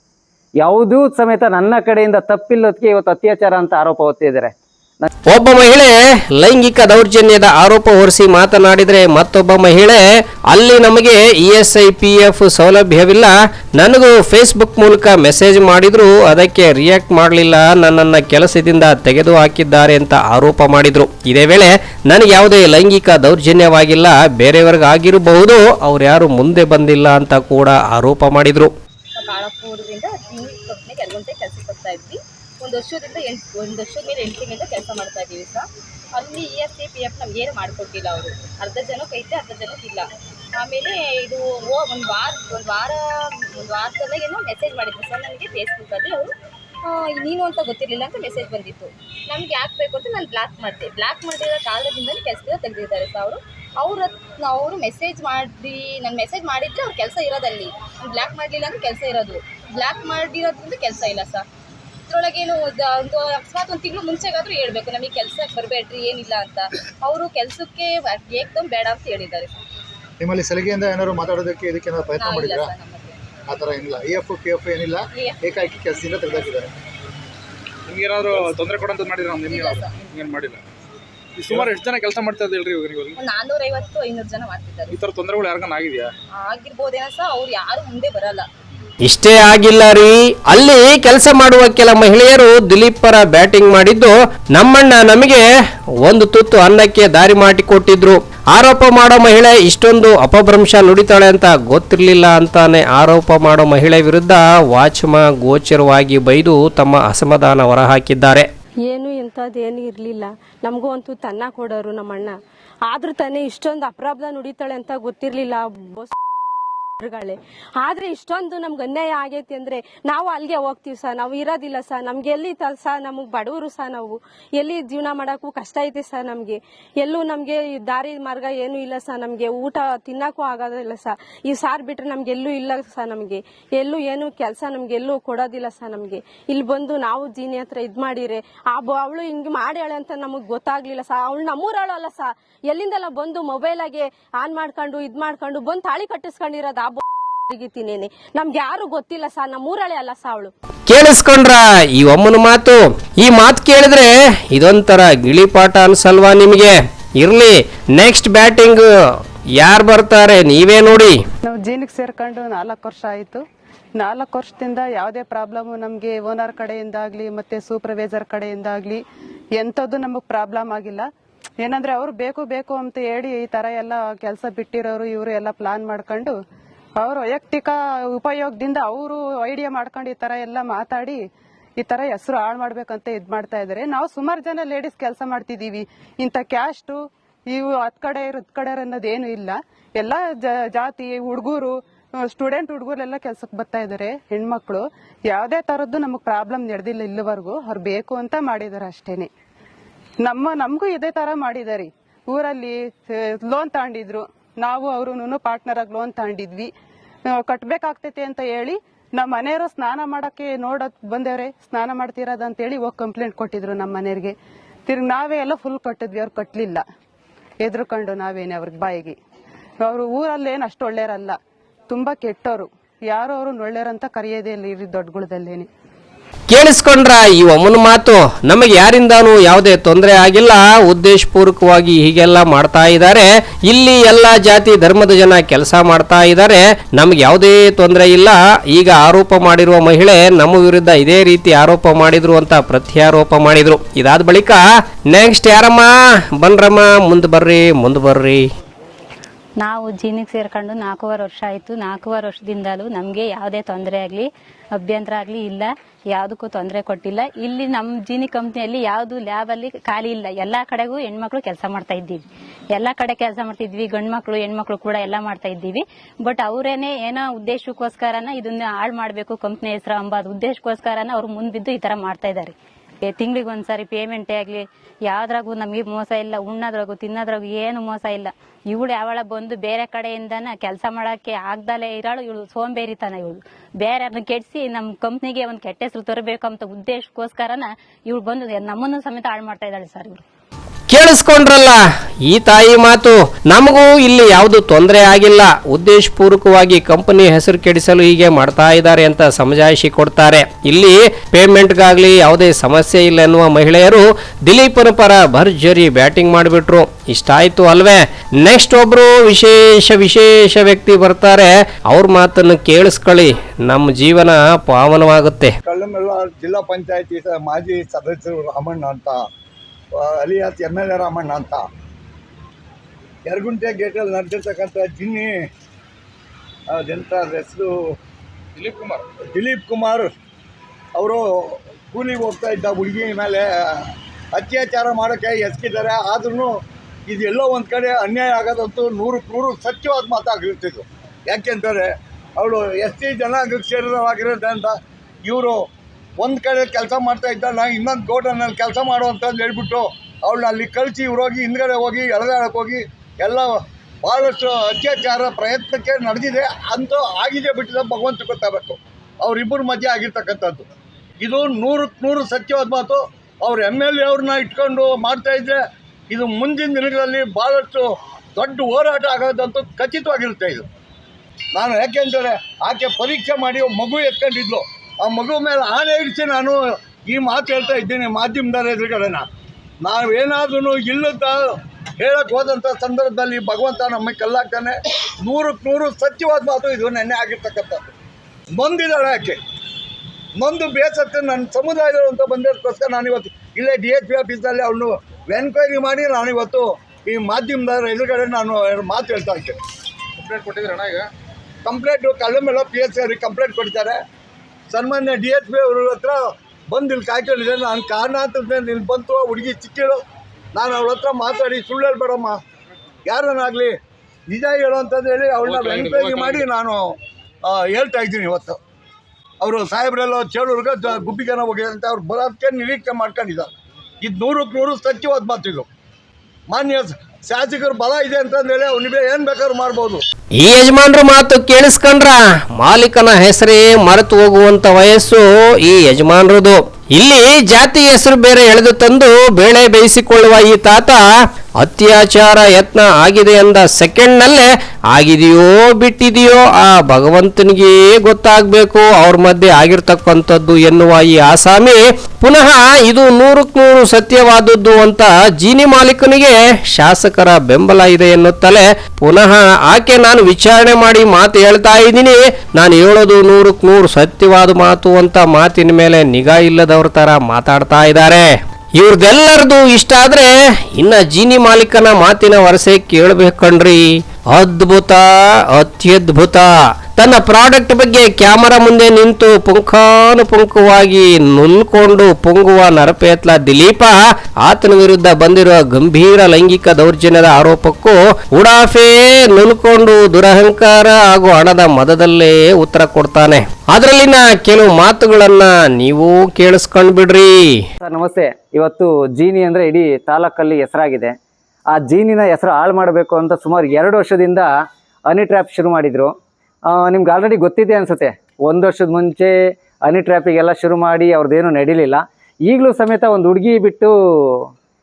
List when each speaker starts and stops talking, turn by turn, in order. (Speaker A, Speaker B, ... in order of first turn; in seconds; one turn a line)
Speaker A: 0.6-5.1
Speaker B: 5.3-28.7
Speaker C: 29.1-46.3
Speaker C: 46.8-61.5
Speaker C: 62.1-69.5
Speaker D: 70.2-72.7
Speaker C: 72.1-73.3
Speaker D: 73.5-76.7
Speaker C: 75.1-75.8
Speaker E: 77.9-80.6
Speaker C: 78.2-78.6
Speaker C: 79.4-80.1
Speaker E: 81.4-83.2
Speaker C: 83.1-85.0
Speaker E: 84.9-86.1
Speaker C: 86.3-88.5
Speaker B: 89.0-95.4
Speaker B: 96.0-108.5
Speaker F: 108.8-112.3
Speaker F: 112.9-116.1
Speaker F: 117.0-150.5
Speaker B: 150.9-158.9
Speaker B: 159.6-161.2
Speaker G: 161.4-163.4
Speaker G: 163.9-169.0
Speaker G: 169.6-171.1
Speaker G: 171.6-176.3
Speaker G: 177.0-181.2
Speaker G: 181.8-199.3
Speaker G: 200.2-206.7
Speaker G: 207.3-214.3
Speaker G: 214.9-216.8
Speaker G: 217.6-219.2
Speaker G: 219.8-221.4
Speaker G: 221.9-225.7
Speaker B: 226.5-248.4
Speaker H: 249.6-290.2
Speaker B: 290.9-315.6
Speaker I: 315.6-319.2
Speaker I: 319.9-321.6
Speaker I: 323.3-325.5
Speaker I: 326.7-327.7
Speaker E: 328.6-329.0
Speaker I: 329.3-330.1
Speaker I: 331.0-345.6
Speaker I: 346.2-360.7
Speaker I: 361.2-370.6
Speaker I: 371.5-379.2
Speaker I: 379.8-387.9
Speaker I: 388.6-389.4
Speaker I: 390.4-399.6
Speaker E: 400.2-401.1
Speaker I: 401.6-404.0
Speaker I: 404.7-410.0
Speaker I: 410.5-412.4
Speaker I: 413.1-413.8
Speaker I: 414.3-418.6
Speaker E: 415.5-416.4
Speaker I: 419.4-423.5
Speaker I: 424.0-425.7
Speaker I: 426.5-430.0
Speaker B: 430.4-441.0
Speaker B: 441.6-497.6
Speaker A: 497.8-501.1
Speaker A: 501.7-504.5
Speaker A: 505.1-506.1
Speaker A: 506.7-509.3
Speaker A: 509.9-514.5